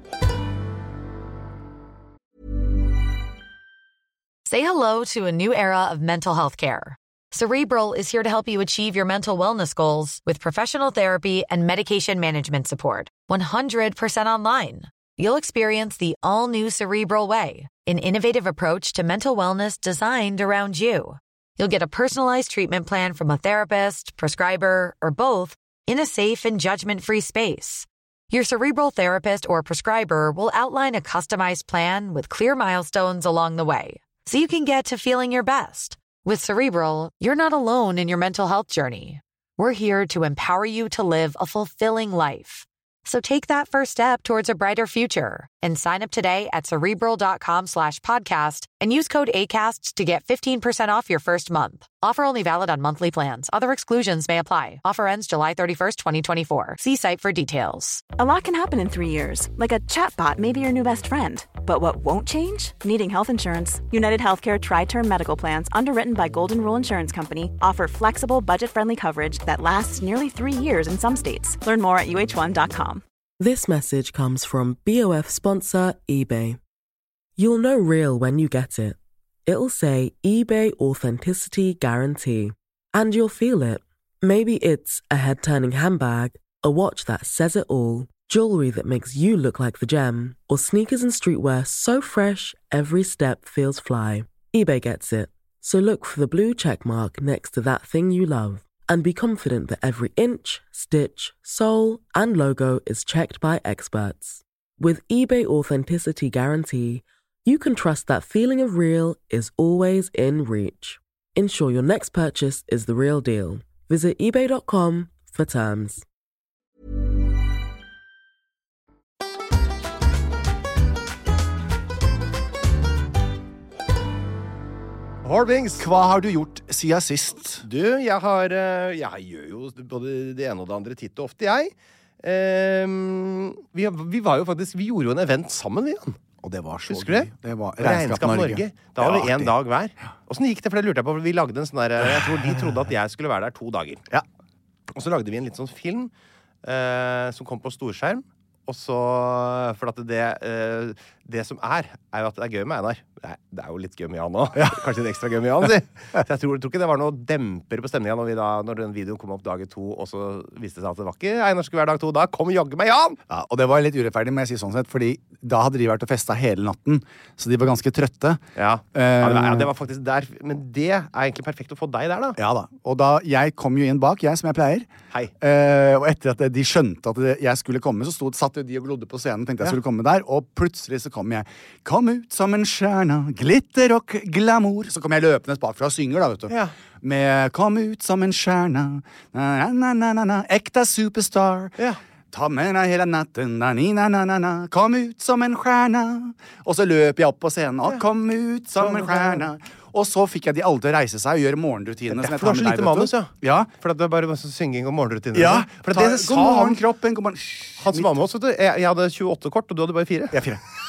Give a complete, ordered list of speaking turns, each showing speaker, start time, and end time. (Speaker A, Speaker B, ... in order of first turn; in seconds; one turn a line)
Speaker A: 4.5-58.0
Speaker B: 58.2-73.0
Speaker C: 73.4-76.6
Speaker C: 77.4-116.0
Speaker D: 125.2-125.8
Speaker E: 125.8-127.7
Speaker D: 127.6-136.2
Speaker E: 136.4-139.5
Speaker D: 136.9-144.0
Speaker D: 144.9-146.1
Speaker D: 146.6-163.2
Speaker E: 154.5-154.9
Speaker E: 163.3-168.4
Speaker D: 168.6-172.4
Speaker E: 168.9-169.7
Speaker E: 172.4-174.9
Speaker E: 175.4-191.7
Speaker D: 186.5-186.7
Speaker E: 192.3-203.7
Speaker D: 198.8-199.4
Speaker D: 202.1-206.8
Speaker E: 205.3-208.1
Speaker D: 207.8-210.4
Speaker E: 210.3-210.6